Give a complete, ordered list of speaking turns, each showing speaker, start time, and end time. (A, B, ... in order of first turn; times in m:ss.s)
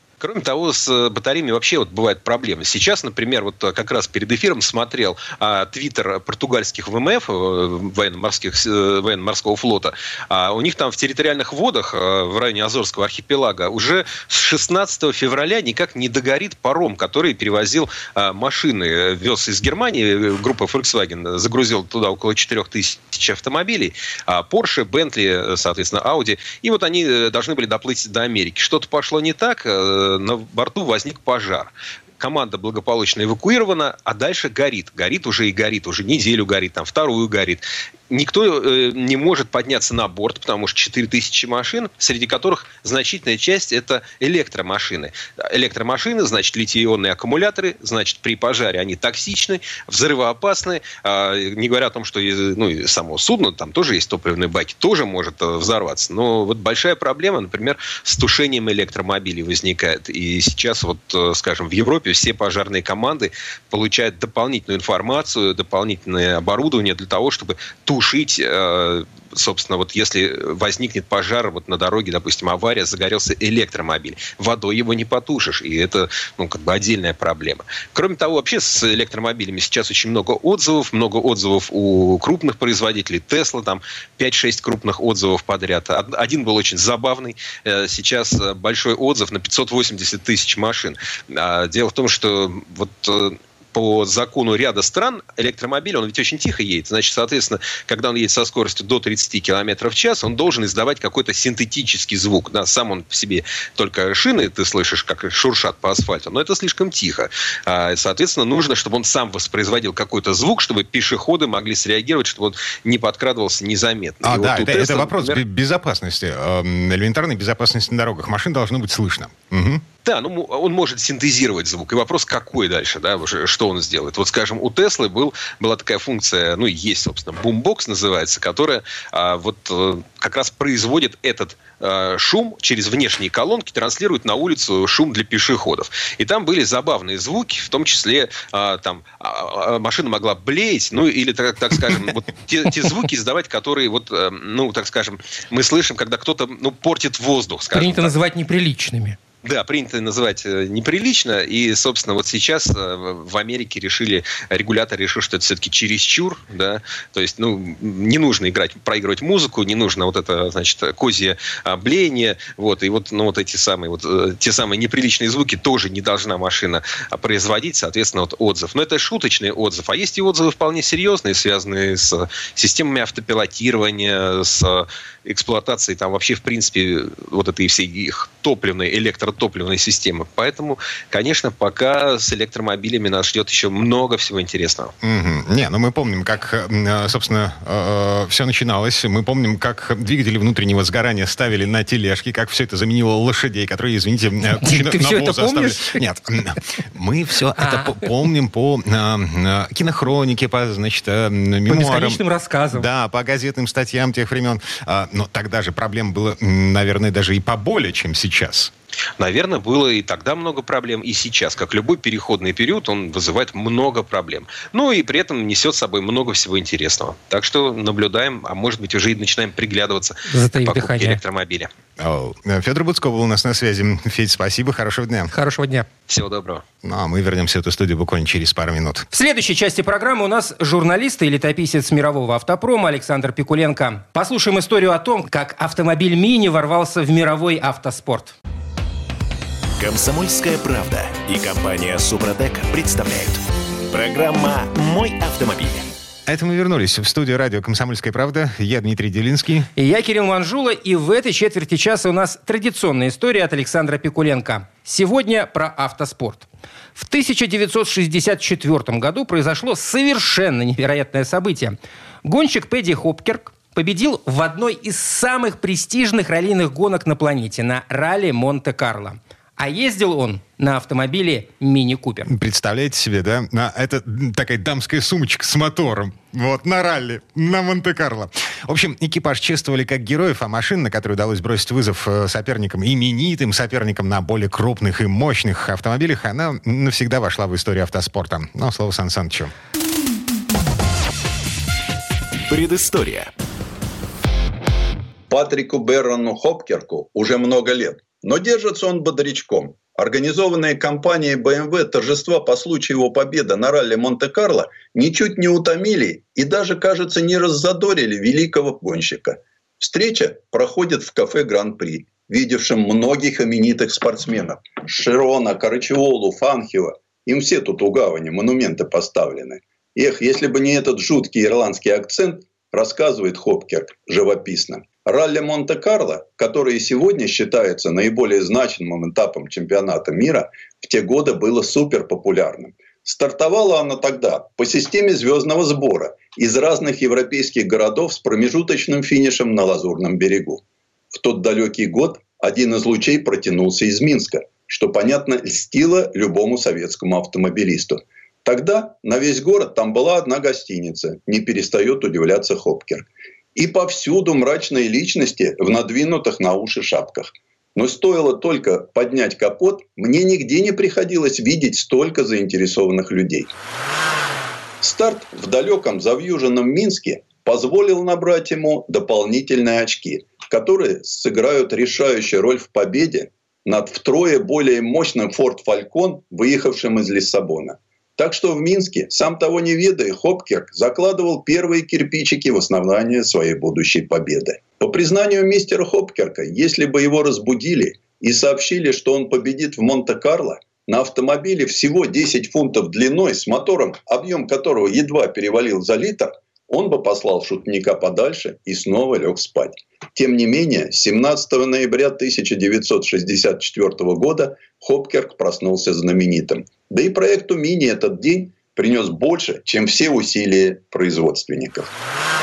0:00.2-1:55.4 A
1:54.2-1:59.8 B
2:00.0-2:28.1 A
2:27.7-2:29.2 C
2:29.4-3:04.9 A
3:05.0-3:22.2 B
3:14.6-3:16.0 C
3:17.6-3:18.1 C
3:21.7-3:22.9 C
3:22.7-3:28.7 B
3:29.2-3:41.7 A
3:40.3-3:41.2 C
3:42.0-3:45.3 B
3:45.3-3:45.9 C
3:46.1-3:46.6 A
3:46.8-3:49.1 B
3:49.1-3:58.3 C
3:59.8-4:05.9 D
4:06.3-4:09.7 B
4:09.8-4:32.3 C
4:32.3-4:49.5 B
4:52.5-4:53.3 D
4:55.3-5:40.6 E
5:41.1-6:03.5 E
6:04.8-6:51.9 E